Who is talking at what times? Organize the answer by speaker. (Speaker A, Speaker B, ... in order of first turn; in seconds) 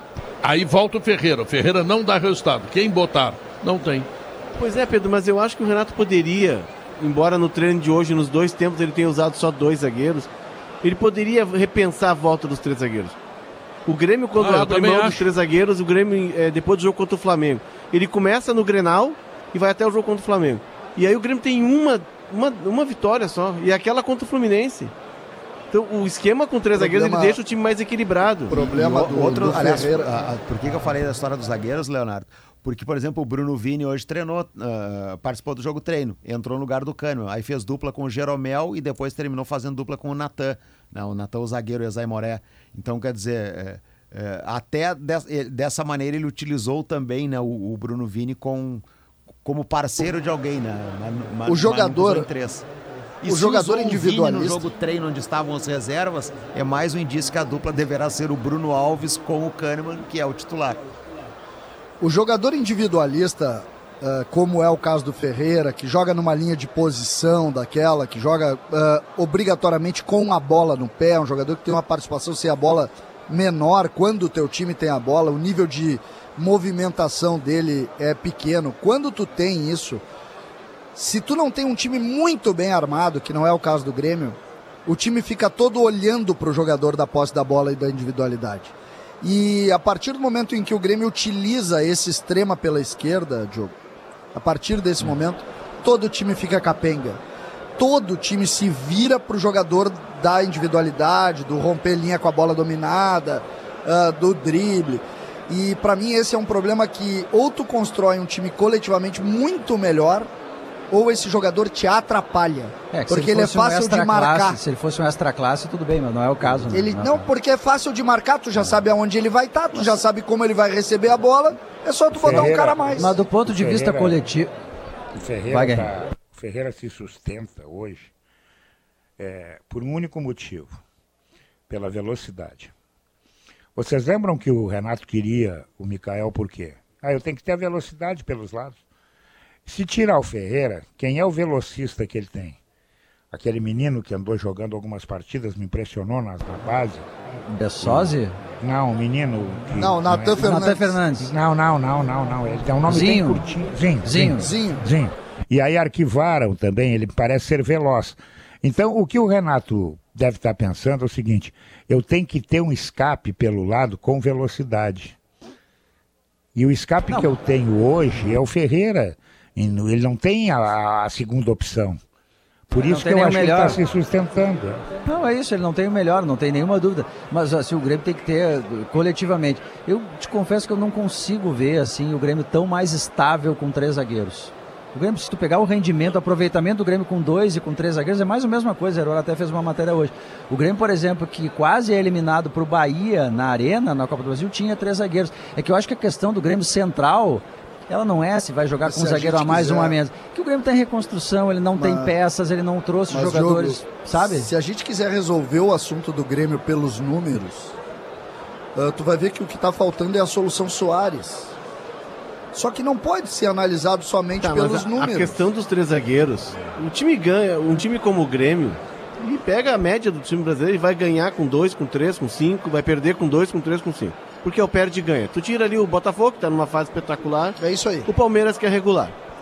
Speaker A: 0.4-4.1, 14.3-15.3
Speaker B: 4.5-10.3, 10.8-13.2, 13.8-24.9, 25.7-28.5, 214.4-229.1
Speaker C: 26.8-27.4, 28.5-30.1, 51.5-52.3, 53.2-54.6, 62.0-80.0, 80.9-93.7, 94.3-97.2, 97.8-110.3, 110.9-114.6, 116.7-123.1, 149.8-150.9, 154.4-154.8, 198.8-200.0, 201.8-202.1, 203.1-207.7, 208.8-211.5, 212.5-215.4, 227.6-228.1
Speaker D: 28.5-48.8, 49.4-52.6, 53.2-60.9
Speaker E: 112.9-117.3, 122.2-124.5, 125.5-125.9, 147.5-148.4, 150.4-151.3, 152.9-153.4, 154.0-154.5, 172.8-173.8, 175.0-204.5
Speaker F: 122.2-124.2, 125.1-128.1, 129.2-130.8, 131.7-132.7, 133.8-138.8, 139.7-142.6, 143.3-147.1, 147.8-150.5, 151.2-165.2, 166.5-172.0, 172.7-174.8